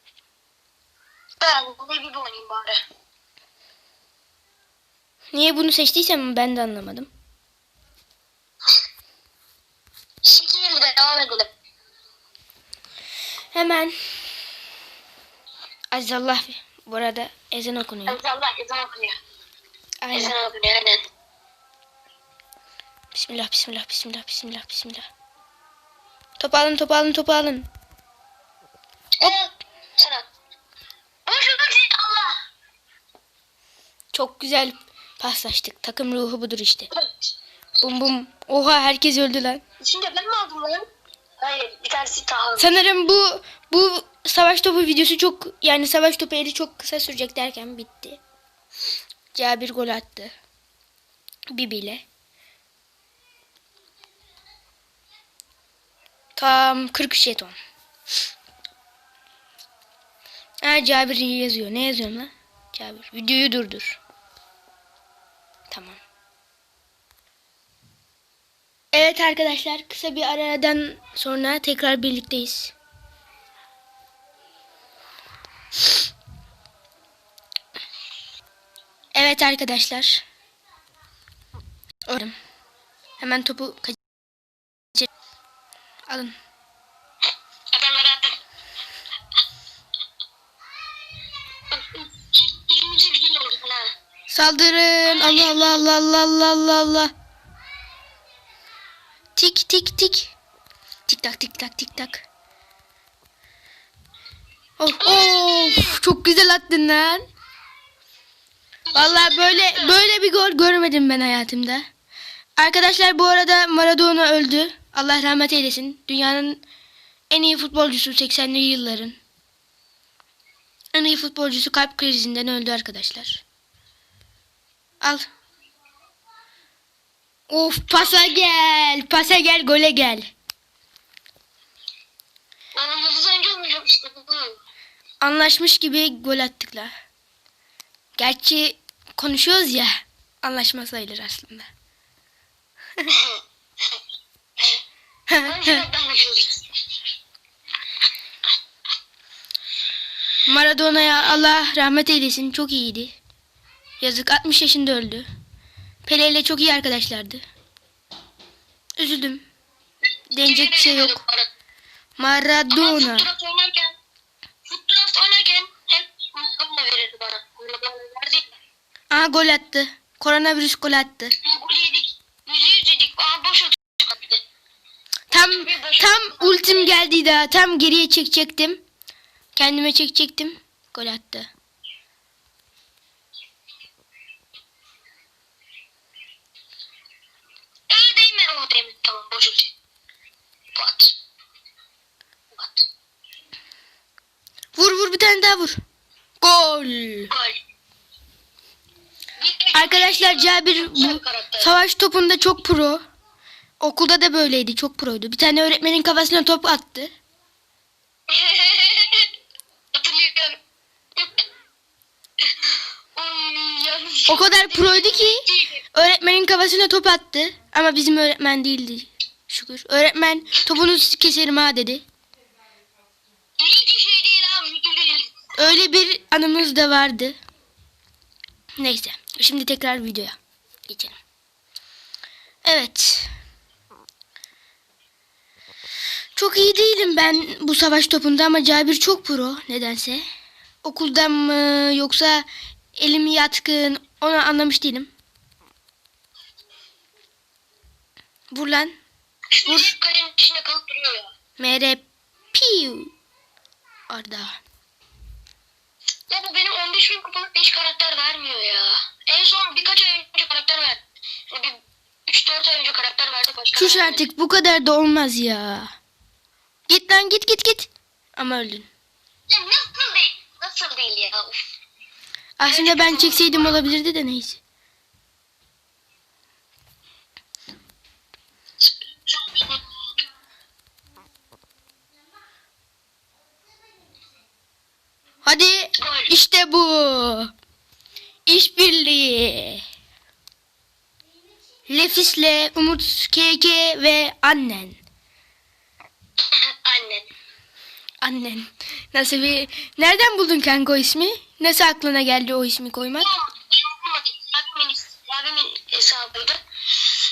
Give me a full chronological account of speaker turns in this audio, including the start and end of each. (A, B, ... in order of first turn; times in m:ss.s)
0:01.4-0:02.8 A
0:05.3-0:07.1 B
0:10.2-0:11.5 A
0:13.5-0:13.9 B
0:15.9-0:18.2 B
0:18.1-0:19.2 A
0:20.0-0:20.3 B
0:20.1-0:21.0 A
0:23.1-0:25.1 B
0:26.4-0:27.7 B
0:29.2-0:30.3 A
0:31.2-0:32.4 A
0:34.1-0:36.9 B
0:37.8-0:39.6 B
0:39.8-0:40.8 A
0:41.4-0:42.7 A
0:42.6-0:48.2 B
0:49.3-0:50.3 B
0:51.5-0:52.0 B
0:56.4-0:57.5 B
1:00.6-1:04.0 B
1:05.7-1:06.0 B
1:08.9-1:12.7 B
1:19.1-1:20.2 B
1:22.1-1:22.3 B
1:23.2-1:24.0 B
1:26.1-1:26.4 B
1:27.7-1:28.4 A
1:31.7-1:33.9 A
1:34.3-1:37.1 B
1:35.0-1:35.8 A
1:39.4-1:40.3 B
1:41.1-1:42.2 B
1:44.8-1:47.2 B
1:45.0-1:46.0 A
1:48.9-1:50.0 A
1:48.9-1:51.9 B
1:52.6-1:56.6 B
1:57.3-1:59.2 B
2:00.9-2:03.4 B
2:07.5-2:10.3 B
2:07.9-2:08.3 A
2:12.7-2:14.6 A
2:15.2-2:16.9 B
2:18.2-2:21.7 B
2:23.1-2:23.4 A
2:25.3-2:25.8 B
2:25.4-2:26.6 A
2:30.4-2:33.2 B
2:34.0-2:35.3 B
2:36.0-2:37.4 B
2:39.0-2:39.4 B
2:40.3-2:41.2 B
2:40.4-2:41.5 A
2:42.2-2:43.3 B
2:42.7-2:43.9 A
2:44.6-2:48.5 A
2:49.1-2:51.3 B
2:51.4-2:54.4 A
2:55.3-2:58.8 B
2:55.3-2:57.0 A
2:59.6-3:01.5 B
3:07.9-3:09.7 A
3:10.7-3:11.2 A
3:12.5-3:12.8 A
3:14.7-3:15.8 B
3:16.4-3:17.3 B
3:17.3-3:17.6 A
3:19.4-3:21.7 A
3:19.7-3:23.0 B
3:23.8-3:27.1 B
3:28.3-3:29.3 A
3:29.9-3:30.6 A
3:31.2-3:31.4 A
3:33.1-3:35.8 A
3:34.3-3:42.0 B
3:43.6-3:45.3 A
3:45.6-3:47.4 B
3:48.8-3:50.4 B
3:50.9-3:51.2 B
3:52.6-3:53.3 B
3:56.4-4:00.2 B
4:00.8-4:05.1 B
4:08.5-4:09.0 B
4:09.5-4:11.3 A
4:09.6-4:09.9 B
4:11.6-4:13.1 B
4:14.1-4:14.6 B
4:16.3-4:24.2 A
4:23.7-4:25.9 B
4:26.9-4:28.9 B
4:29.5-4:31.6 A
4:32.6-4:34.6 B
4:32.7-4:33.9 A
4:38.8-4:39.8 A
4:45.4-4:47.5 B
4:46.0-4:46.3 A
4:48.4-4:49.8 B
4:51.9-4:55.0 B
4:56.5-4:57.3 A
4:58.2-5:03.3 B
5:03.2-5:06.6 A